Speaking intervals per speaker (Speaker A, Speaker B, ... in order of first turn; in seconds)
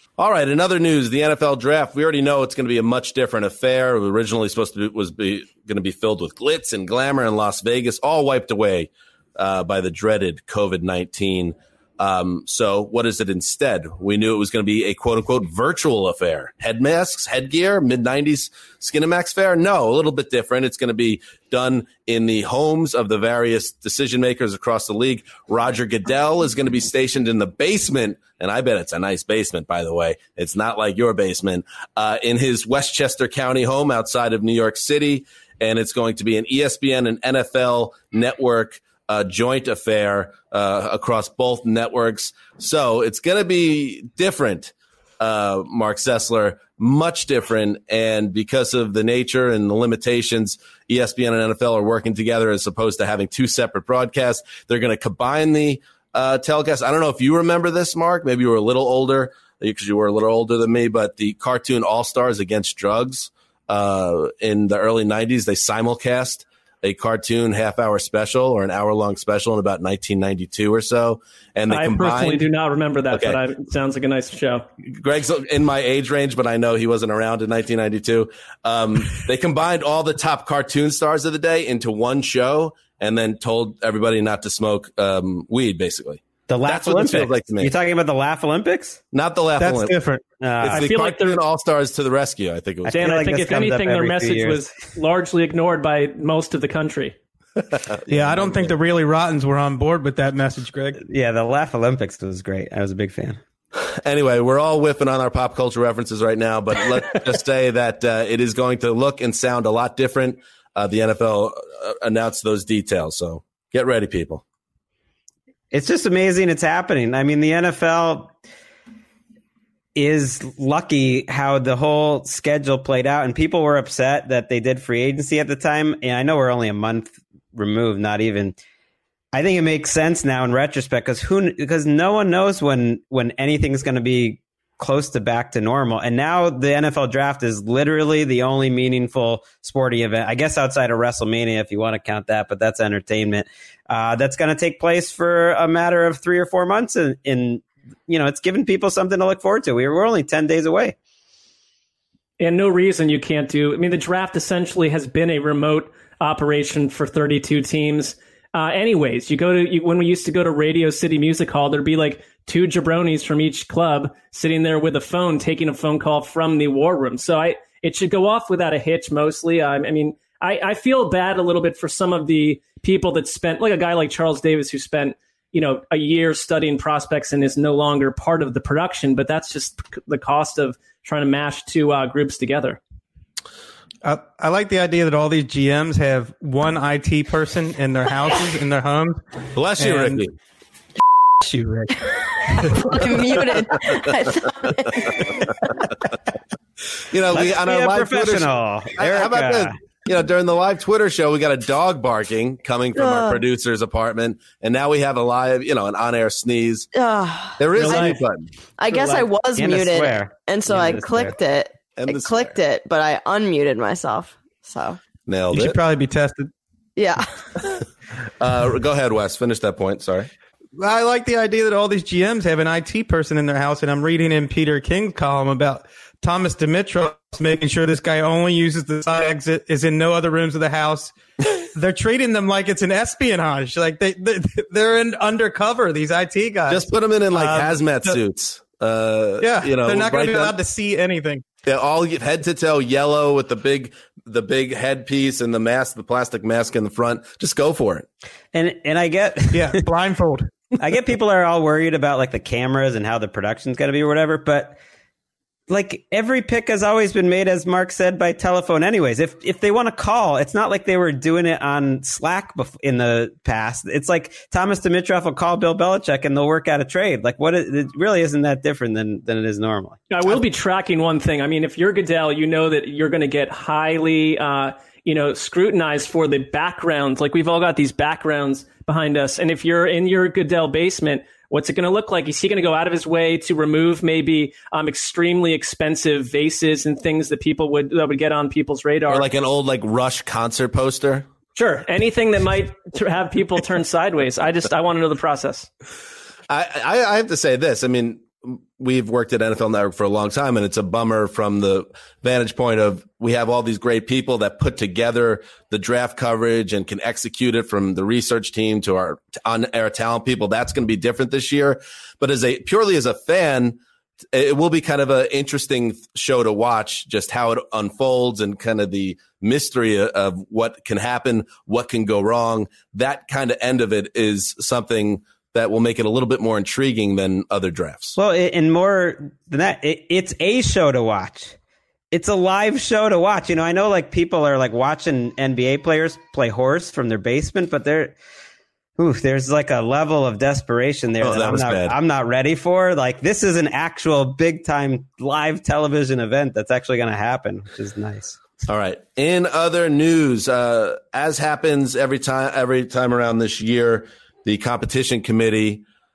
Speaker A: 0.2-72.5, 73.1-73.4, 74.9-87.7, 89.1-90.0, 90.6-93.0, 97.7-98.8, 103.7-114.4, 189.6-190.3, 197.1-206.9, 207.6-208.5, 212.0-212.6, 215.3-215.8, 218.4-220.3, 236.7-240.5, 241.7-248.1, 289.1-291.3, 296.5-313.8, 314.3-328.2, 341.2-341.9, 348.7-355.8
Speaker B: 71.7-74.7, 90.7-91.4, 92.9-97.2, 152.4-182.8, 270.1-289.3, 291.6-295.7
Speaker C: 86.5-89.0, 90.4-90.9, 92.8-94.7, 101.0-103.4, 115.7-118.3, 120.0-128.6, 129.3-151.0, 197.3-199.7, 207.8-208.2, 208.9-211.3, 248.5-249.8, 250.8-254.8, 255.7-270.0, 328.2-331.6, 332.1-338.2, 339.0-348.4
Speaker D: 89.6-90.2, 98.1-101.0, 184.0-189.2, 189.8-190.2, 191.4-192.0, 192.6-193.0, 215.5-216.5, 220.8-231.1, 231.7-238.2, 239.4-241.4, 249.5-250.5
Speaker E: 192.8-195.5, 202.9-203.4, 206.9-208.2, 208.8-215.0, 217.0-217.3